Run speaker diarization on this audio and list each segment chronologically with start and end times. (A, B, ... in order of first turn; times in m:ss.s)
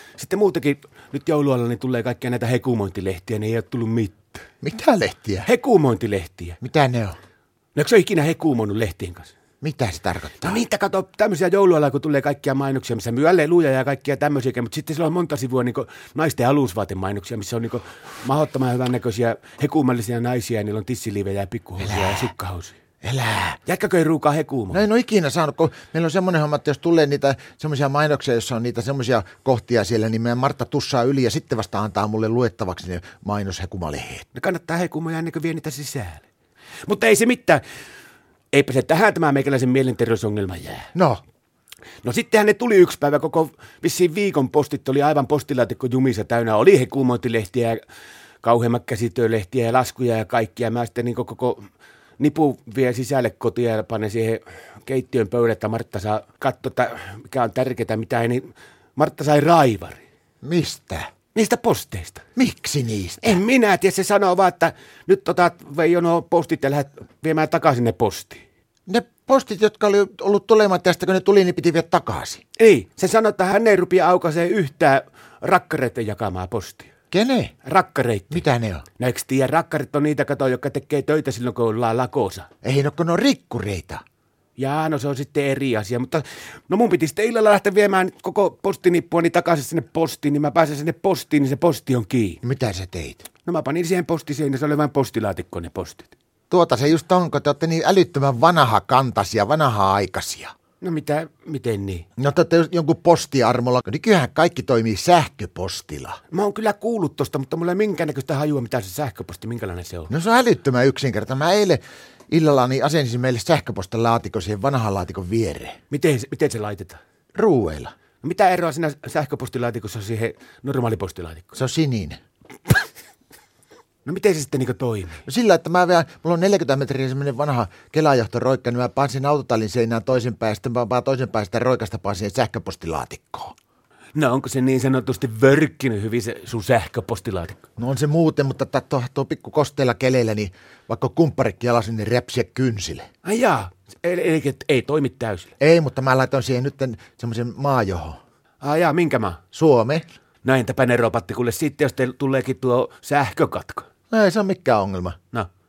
0:00.2-0:04.4 A
0:04.6-0:05.5 B
0:05.4-0:06.6 A
0:06.6-0:07.2 B
0:07.8-0:09.3 A
0:09.6-0:10.6 B
0:10.4-0:22.8 A
0:21.8-0:22.3 B
0:23.0-0:23.6 B
0:23.7-0:24.9 A
0:24.7-0:34.3 B
0:34.3-0:36.3 A
0:36.9-0:37.6 A
0:38.5-0:40.9 A
0:41.0-0:41.2 B
0:42.0-0:47.8 A
0:48.4-0:51.7 A
0:52.2-1:00.0 A
1:00.4-1:01.1 B
1:01.3-1:02.2 A
1:02.4-1:03.4 B
1:03.2-1:08.4 A
1:08.9-1:12.4 B
1:12.6-1:16.9 A
1:17.1-1:17.5 B
1:17.6-1:22.5 A
1:18.3-1:18.9 B
1:22.6-1:24.0 B
1:24.6-1:32.4 A
1:32.4-1:33.3 B
1:33.4-1:36.1 A
1:36.5-1:40.5 B
1:40.8-1:42.1 A
1:42.2-1:46.2 B
1:46.3-1:50.1 A
1:50.1-1:55.8 B
1:55.9-1:57.0 A
1:57.4-1:58.0 B
1:58.2-2:01.6 A
2:01.6-2:02.2 B
2:04.0-2:05.2 A
2:05.3-2:13.5 B
2:14.2-2:17.6 A
2:17.8-2:23.1 B
2:23.2-2:25.5 A
2:25.6-2:28.2 B
2:28.6-2:29.4 A
2:29.5-2:30.0 B
2:30.4-2:33.9 A
2:34.1-2:35.2 B